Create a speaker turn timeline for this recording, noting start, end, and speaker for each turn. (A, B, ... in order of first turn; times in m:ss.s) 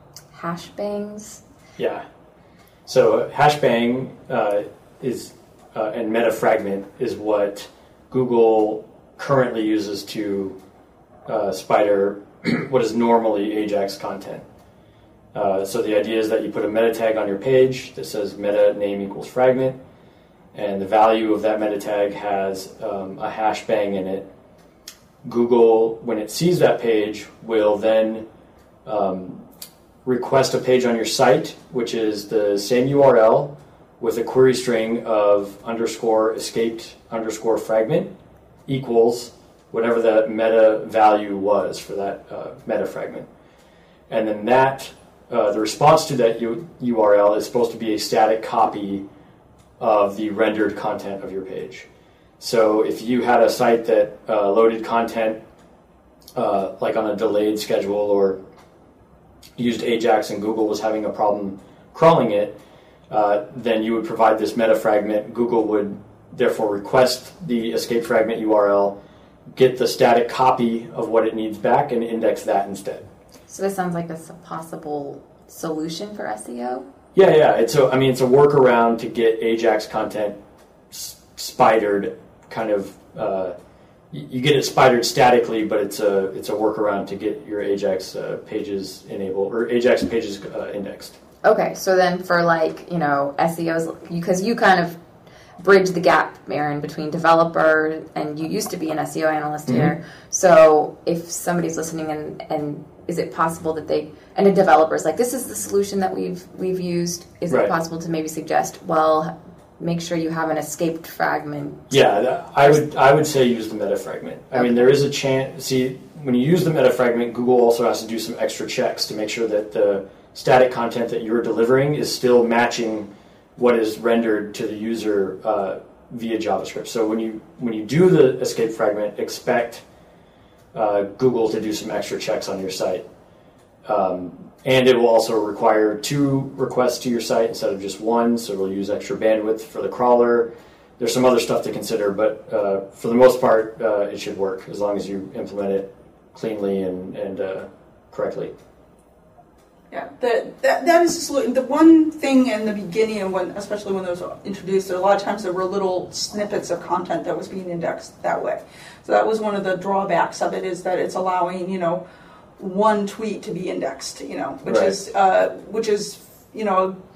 0:00.3-0:01.4 A
0:01.8-0:02.0 B
0:02.8-0:10.6 B
0:11.3-0:14.4 B
0:15.3-0:19.8 B
0:20.5-0:24.3 B
0:25.2-0:28.3 B
0:28.8-0:29.4 B
0:30.0-0:38.1 B
0:38.7-0:43.3 B
0:44.1-0:49.0 B
0:49.8-0:51.8 B
0:52.4-0:55.4 B
0:56.3-0:58.4 B
0:59.6-1:02.6 B
1:03.1-1:09.0 B
1:09.5-1:13.1 B
1:13.5-1:16.8 A
1:17.1-1:20.4 B
1:20.9-1:23.5 B
1:24.1-1:31.2 B
1:31.4-1:35.0 A
1:35.6-1:52.0 A
1:39.7-1:39.9 B
1:47.5-1:47.7 B
1:51.9-2:09.8 B
1:54.5-1:54.9 A
2:10.7-2:13.0 B
2:13.8-2:28.5 B
2:29.9-2:42.0 C
2:42.6-2:47.0 C
2:44.6-2:45.0 B